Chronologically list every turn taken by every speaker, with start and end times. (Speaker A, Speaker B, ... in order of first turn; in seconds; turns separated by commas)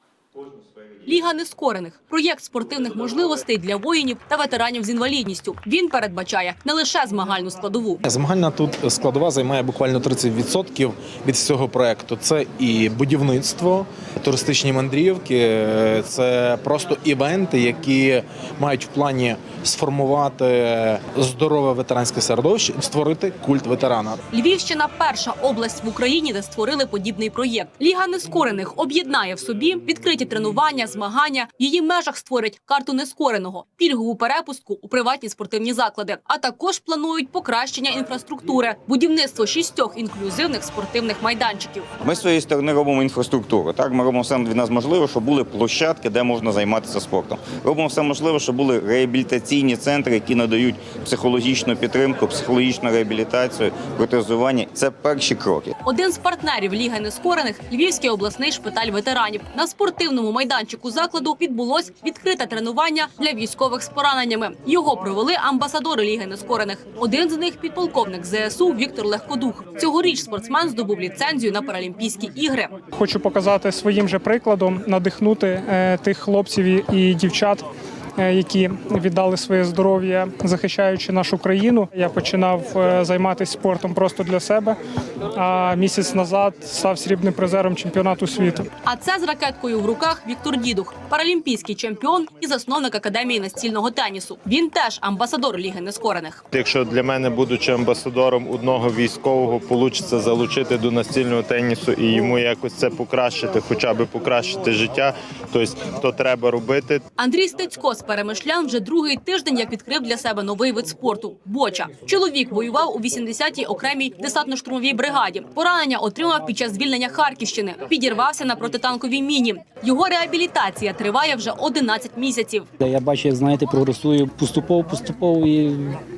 Speaker A: 1.1-8.0, Speaker B: 8.0-24.2, Speaker A: 24.3-41.9, Speaker C: 42.0-55.7, Speaker A: 55.8-72.7, Speaker D: 73.0-77.6, Speaker D: 78.2-84.8, Speaker D: 85.3-88.7, Speaker A: 88.8-96.4, Speaker E: 96.5-107.0, Speaker A: 107.2-122.7, Speaker F: 122.8-126.0